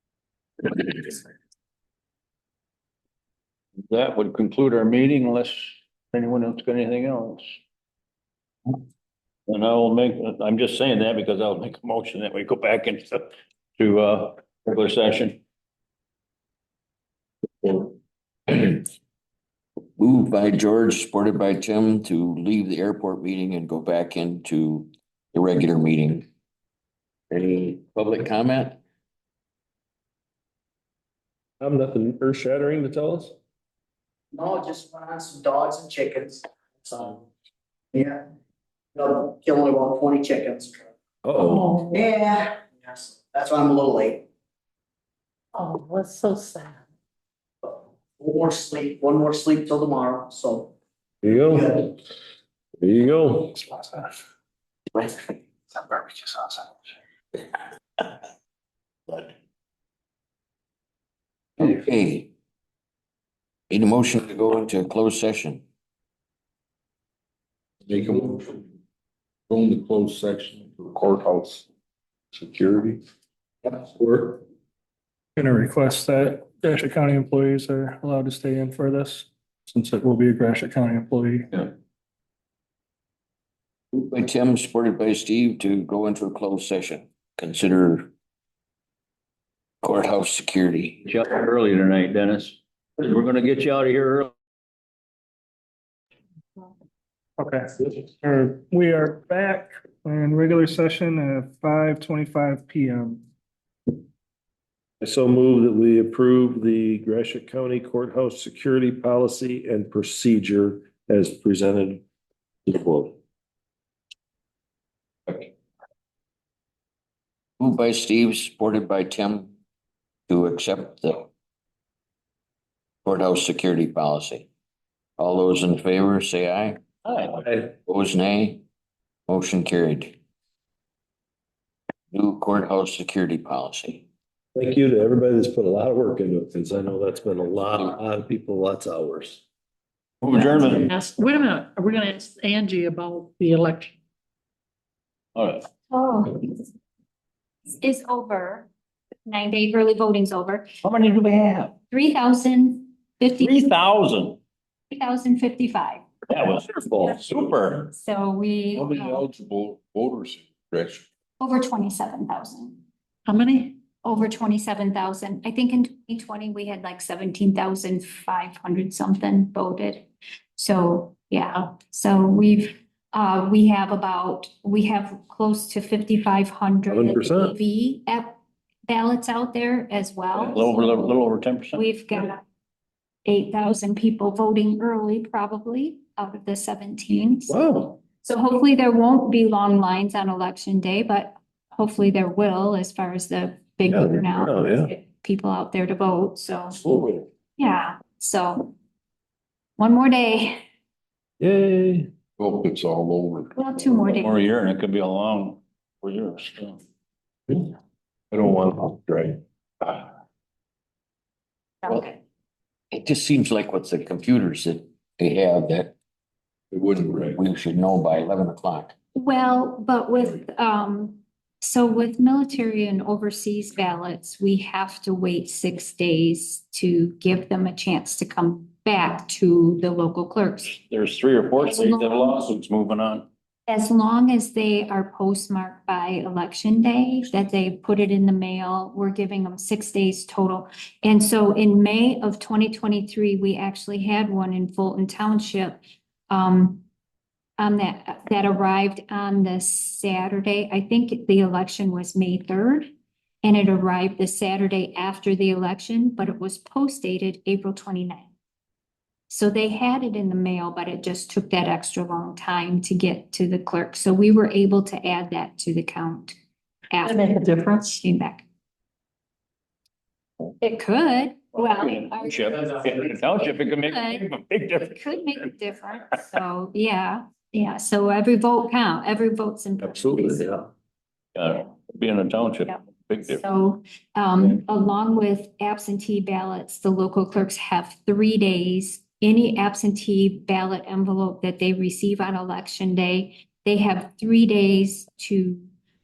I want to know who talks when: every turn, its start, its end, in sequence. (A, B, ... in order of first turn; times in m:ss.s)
0:00.7-0:01.1 A
0:03.9-0:07.4 A
0:09.5-0:15.4 A
0:17.6-0:17.9 B
0:18.5-0:18.8 B
0:20.0-0:26.2 B
0:27.3-0:28.8 B
0:31.6-0:33.3 C
0:34.3-0:37.2 D
0:37.9-0:38.2 D
0:38.9-0:40.9 D
0:41.2-0:41.8 C
0:41.4-0:42.0 E
0:41.9-0:44.2 D
0:45.5-0:46.8 E
0:47.6-0:50.7 D
0:51.2-0:51.9 C
0:51.5-0:51.8 D
0:52.8-0:54.1 C
0:55.7-0:56.6 C
1:01.6-1:02.3 B
1:03.7-1:05.6 B
1:07.8-1:08.6 F
1:09.5-1:11.7 F
1:12.3-1:13.0 F
1:13.7-1:14.4 C
1:15.4-1:21.5 G
1:23.9-1:28.1 B
1:29.8-1:31.0 B
1:31.0-1:34.3 A
1:37.4-1:43.2 G
1:45.0-1:52.0 C
1:52.6-1:53.2 C
1:57.6-1:59.5 B
2:00.3-2:01.3 B
2:03.0-2:04.5 B
2:05.2-2:06.8 B
2:07.0-2:07.4 A
2:07.6-2:08.6 B
2:09.3-2:10.2 B
2:12.1-2:14.0 B
2:14.5-2:19.4 C
2:20.2-2:20.9 A
2:20.9-2:23.9 E
2:25.3-2:25.7 A
2:25.9-2:26.5 H
2:27.8-2:28.7 H
2:29.2-2:30.7 H
2:30.8-2:31.7 A
2:31.9-2:33.5 H
2:33.4-2:34.4 A
2:34.9-2:36.0 H
2:36.3-2:37.9 A
2:37.9-2:39.2 H
2:38.7-2:41.0 F
2:41.4-2:42.8 H
2:43.2-2:43.8 E
2:44.0-3:00.5 H
2:56.9-2:57.5 C
3:00.5-3:01.8 A
3:01.7-3:02.4 H
3:03.2-3:07.6 H
3:07.5-3:08.0 C
3:08.1-3:16.8 H
3:13.9-3:14.9 C
3:16.9-3:17.2 C
3:17.6-3:18.7 H
3:19.8-3:20.6 H
3:21.4-3:22.1 C
3:22.4-3:23.5 F
3:23.5-3:24.3 H
3:24.1-3:26.8 A
3:27.5-3:27.7 C
3:28.3-3:30.1 C
3:31.9-3:32.2 H
3:32.9-3:35.9 B
3:36.7-3:37.3 F
3:37.3-3:38.9 B
3:39.1-3:50.7 H
3:50.6-3:53.3 A
3:51.6-3:52.4 H
3:53.7-4:06.8 H
4:07.6-4:12.9 H
4:13.4-4:18.3 H
4:19.3-4:26.3 H
4:26.9-4:28.4 H
4:27.2-4:27.7 E
4:30.6-4:32.3 H
4:31.5-4:35.5 A
4:33.8-4:34.2 H
4:34.9-4:40.5 H
4:40.0-4:40.6 C
4:41.3-4:43.4 A
4:43.3-4:55.7 H